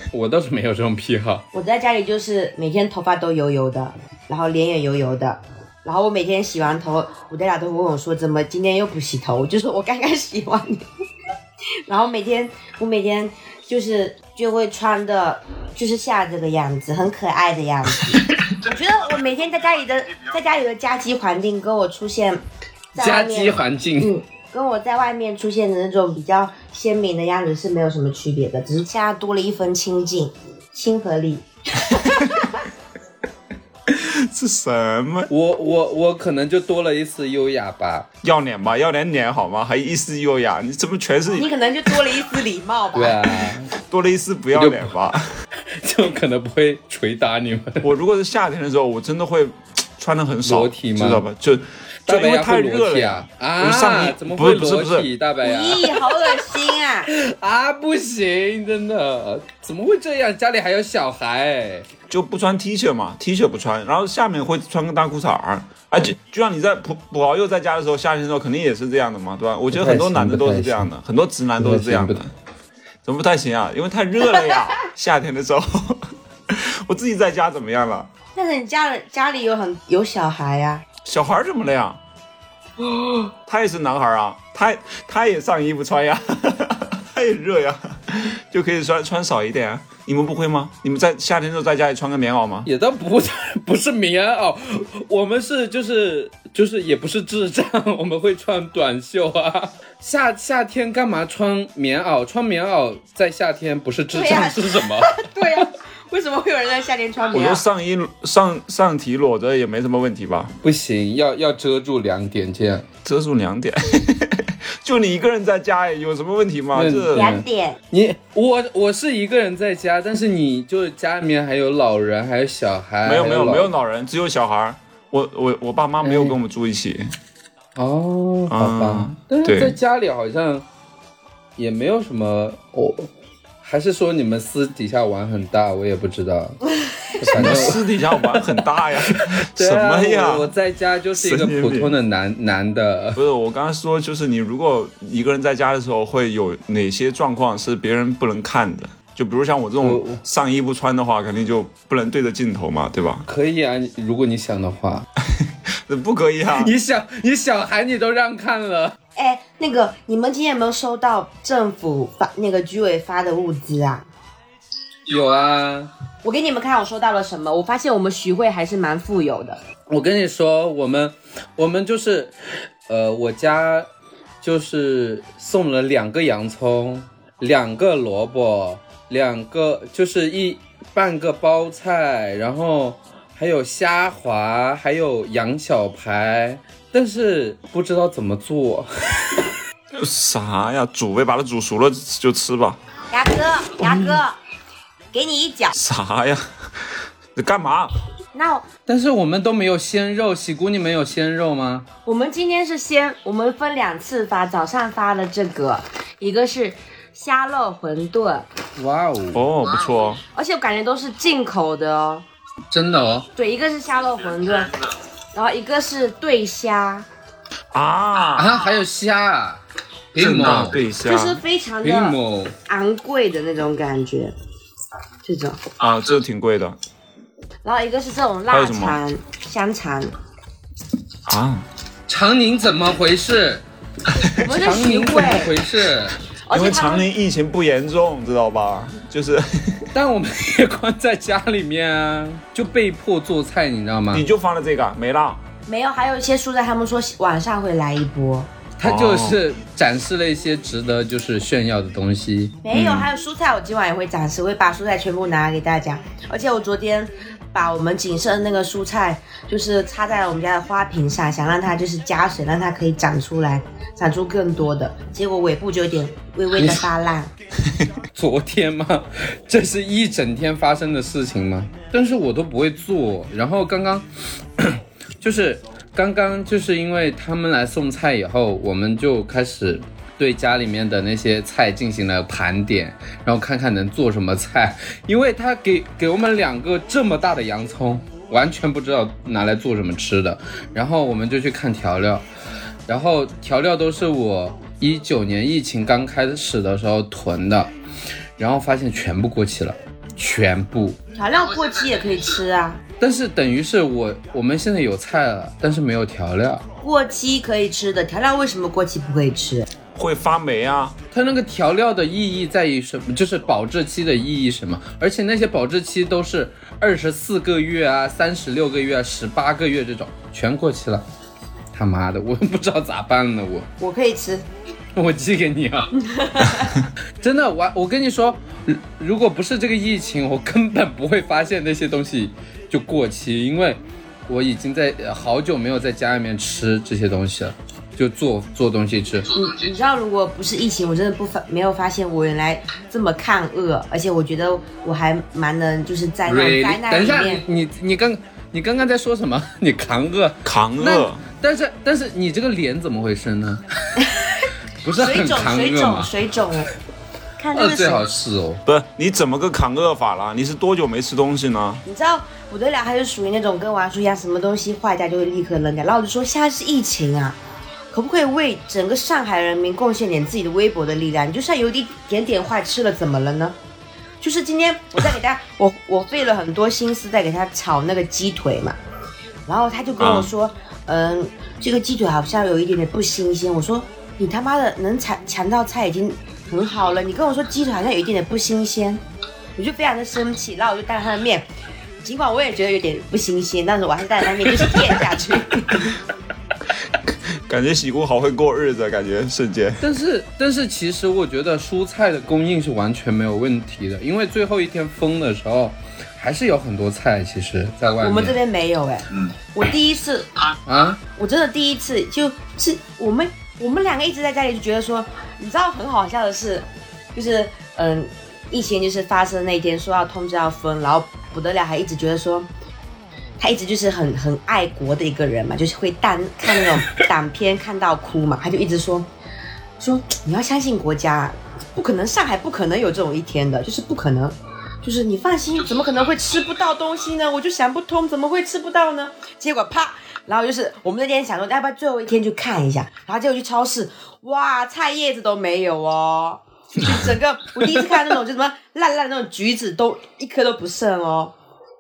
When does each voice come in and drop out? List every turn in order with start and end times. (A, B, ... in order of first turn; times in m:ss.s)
0:00.1-0:01.4 A
0:01.5-0:10.8 B
0:11.9-0:22.4 B
0:22.9-0:32.6 B
0:23.0-0:24.1 A
0:33.9-0:35.3 C
0:35.3-0:38.1 A
0:38.2-0:41.5 C
0:41.4-0:43.3 B
0:43.0-0:43.7 A
0:43.8-0:45.3 C
0:44.6-0:44.9 A
0:45.8-0:47.8 A
0:47.8-0:55.1 C
0:50.4-0:51.2 A
0:52.1-0:56.4 A
0:55.4-0:57.1 B
0:57.1-1:01.9 A
1:02.1-1:12.3 C
1:09.7-1:10.9 A
1:11.6-1:12.2 A
1:13.0-1:18.1 C
1:18.4-1:20.8 B
1:21.0-1:22.0 C
1:23.5-1:32.7 C
1:32.7-1:45.7 A
1:44.1-1:47.6 B
1:47.3-1:50.5 C
1:50.6-1:52.9 A
1:53.0-1:57.3 C
1:56.8-2:03.7 A
1:57.1-1:57.8 B
2:03.0-2:07.1 C
2:06.0-2:06.4 A
2:07.8-2:10.7 A
2:08.5-2:09.8 C
2:11.6-2:16.6 A
2:17.2-2:17.8 A
2:17.3-2:20.5 C
2:19.1-2:23.2 A
2:21.2-2:22.0 C
2:23.2-2:33.3 C
2:29.8-2:30.2 A
2:33.3-2:35.1 A
2:35.2-2:36.7 C
2:36.6-2:39.0 A
2:39.2-2:44.1 B
2:45.1-2:45.9 A
2:46.2-2:49.6 B
2:49.9-2:52.4 A
2:52.9-2:53.9 A
2:54.4-3:09.4 A
3:09.9-3:12.8 C
3:13.1-3:14.4 B
3:13.8-3:14.2 A
3:15.1-3:15.7 B
3:15.7-3:16.4 C
3:17.4-3:17.9 C
3:18.3-3:18.7 B
3:18.9-3:21.9 A
3:22.1-3:28.5 B
3:28.8-3:29.4 A
3:29.3-3:30.2 C
3:30.3-3:32.2 B
3:32.7-3:33.3 A
3:33.4-3:34.8 B
3:35.3-3:37.1 B
3:37.7-3:38.5 C
3:38.4-3:39.6 A
3:40.1-3:40.8 A
3:40.2-3:41.4 C
3:41.0-3:44.3 B
3:41.8-3:42.5 A
3:45.2-3:45.7 B
3:45.8-3:46.8 C
3:47.6-3:50.1 B
3:48.5-3:49.0 C
3:51.3-3:51.7 C
3:52.1-3:53.6 A
3:54.2-3:55.5 B
3:54.5-3:56.2 A
3:56.5-3:57.1 B
3:56.5-3:59.9 C
3:59.9-4:04.3 A
4:04.1-4:05.4 C
4:05.7-4:08.5 B
4:08.8-4:12.6 A
4:08.8-4:09.4 C
4:12.6-4:27.3 B
4:12.7-4:13.1 C
4:26.6-4:26.9 A
4:28.1-4:34.1 A
4:34.6-4:52.2 A
4:52.9-4:57.7 A
4:58.4-5:01.0 A
5:01.2-5:02.8 B
5:03.0-5:06.6 A
5:06.8-5:09.7 B
5:10.0-5:11.0 C
5:11.1-5:21.0 A
5:21.7-5:23.7 A
5:23.8-5:24.4 B
5:25.0-5:25.9 A
5:26.0-5:26.8 B
5:27.2-5:39.4 A
5:39.3-5:47.4 B
5:46.3-5:53.6 A
5:50.4-5:51.2 C
5:54.0-5:56.7 B
5:54.8-5:56.1 A
5:57.4-5:58.0 B
5:57.5-5:58.6 A
5:58.7-6:01.8 C
6:01.9-6:07.4 B
6:07.9-6:13.6 B
6:14.2-6:18.8 B
6:19.5-6:29.0 B
6:20.0-6:20.3 C
6:29.6-6:31.5 B
6:32.0-6:36.0 B
6:37.1-6:39.8 C
6:39.8-6:48.4 A
6:48.0-6:50.4 B
6:50.7-6:51.0 A
6:51.2-7:02.5 B
7:03.4-7:09.1 B
7:09.8-7:31.3 B